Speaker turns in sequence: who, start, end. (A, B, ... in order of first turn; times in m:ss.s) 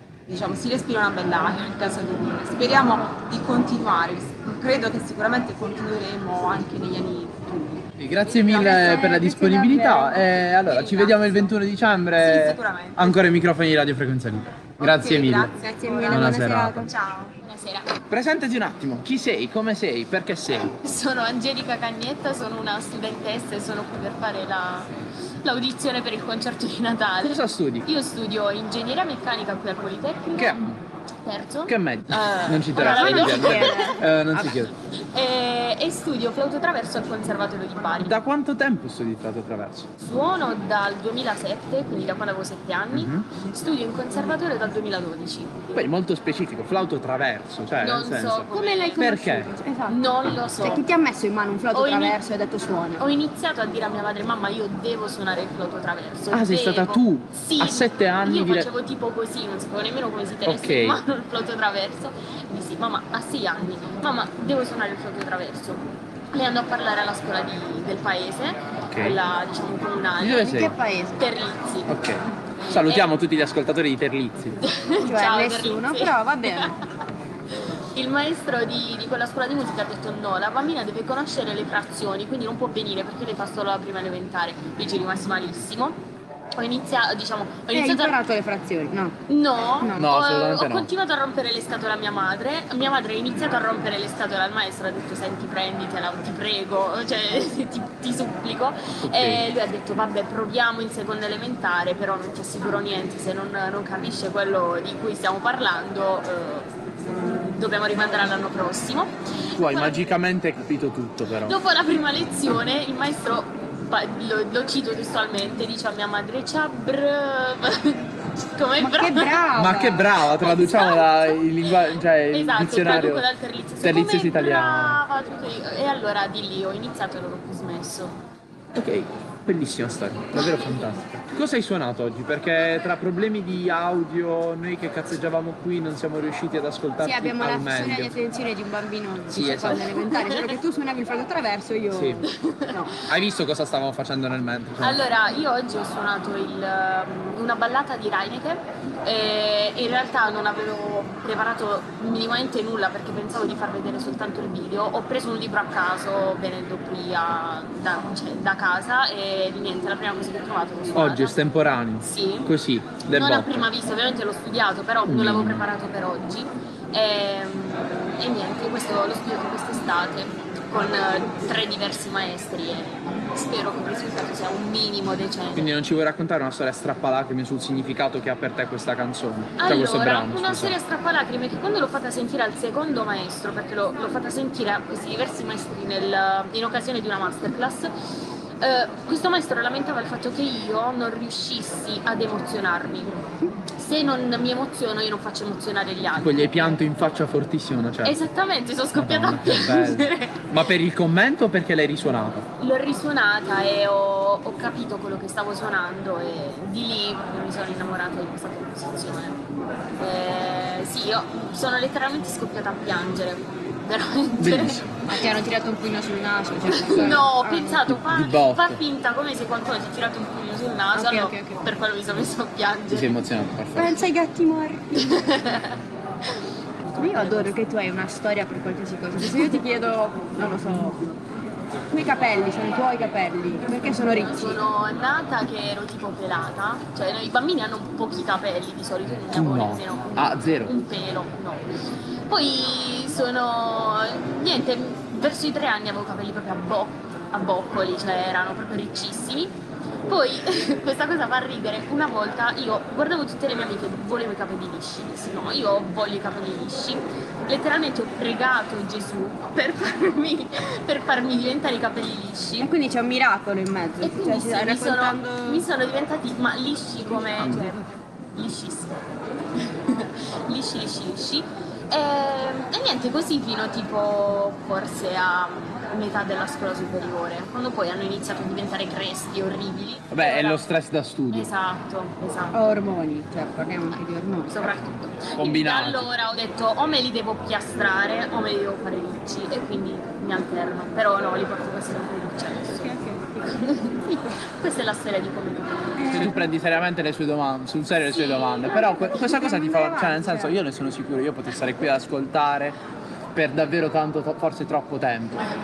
0:00.3-0:09.3 A
0:08.0-0:15.5 B
0:08.5-0:10.3 C
0:10.4-0:11.6 A
0:12.2-0:13.2 A
0:14.8-0:17.3 A
0:15.6-0:16.9 C
0:16.1-0:16.9 B
0:17.4-0:18.0 D
0:18.1-0:20.7 B
0:20.8-0:30.7 D
0:27.2-0:27.9 B
0:30.4-0:30.8 B
0:31.2-0:34.0 D
0:31.7-0:34.7 B
0:32.8-0:34.5 C
0:35.0-0:38.2 D
0:38.0-0:39.9 B
0:40.0-0:45.8 D
0:42.9-0:43.3 B
0:45.7-0:49.5 B
0:47.8-0:49.1 D
0:48.5-0:50.0 C
0:49.8-0:50.8 D
0:50.6-0:53.0 C
0:51.7-0:52.2 D
0:53.0-1:10.6 D
0:56.3-0:58.7 B
1:00.4-1:01.0 B
1:08.9-1:09.2 B
1:10.2-1:10.7 B
1:10.3-1:11.3 C
1:11.2-1:13.1 D
1:11.9-1:14.6 B
1:14.6-1:16.8 D
1:15.0-1:16.7 C
1:17.9-1:26.0 D
1:26.6-1:28.2 D
1:27.7-1:29.2 C
1:29.3-1:46.7 D
1:29.8-1:30.1 C
1:29.9-1:30.9 B
1:39.0-1:39.4 B
1:47.4-1:50.1 D
1:49.6-1:51.6 B
1:51.4-1:59.4 D
1:58.8-2:00.1 C
1:59.6-2:03.2 B
2:00.2-2:08.2 D
2:03.8-2:05.0 B
2:08.7-2:18.1 B
2:17.0-2:23.0 C
2:19.3-2:20.0 B
2:20.0-2:20.5 D
2:21.9-2:22.3 B
2:22.4-2:22.7 D
2:23.1-2:25.0 B
2:24.8-2:41.4 D
2:40.9-2:43.7 B
2:42.0-2:42.5 D
2:43.0-2:55.7 D
2:45.0-2:45.7 B
2:55.5-3:00.8 B
2:59.6-3:07.9 D
3:08.6-3:13.2 D
3:13.8-3:16.8 D
3:16.1-3:18.2 B
3:18.0-3:20.5 D
3:18.9-3:22.5 B
3:22.6-3:29.4 D
3:30.0-3:35.0 D
3:34.4-3:35.0 B
3:35.0-3:37.8 C
3:36.7-3:43.2 D
3:36.9-3:37.2 B
3:37.8-3:38.8 B
3:40.9-3:41.6 C
3:42.9-3:44.0 B
3:43.8-3:45.2 C
3:44.9-3:45.8 D
3:46.9-3:47.5 D
3:46.9-3:51.0 C
3:49.2-3:49.6 D
3:51.9-3:54.6 C
3:54.0-4:01.7 D
3:59.3-4:00.7 B
4:02.3-4:09.6 D
4:10.1-4:22.7 D
4:22.6-4:25.6 C
4:24.0-4:29.0 D
4:29.6-4:40.6 D
4:40.1-4:41.5 B
4:41.3-4:42.7 D
4:42.5-4:44.7 C
4:44.5-4:56.2 D
4:45.3-4:46.1 B
4:52.8-4:53.2 C
4:56.0-4:56.5 C
4:56.1-5:02.8 B
4:58.0-4:59.1 D
4:58.7-5:00.6 C
5:03.3-5:05.4 B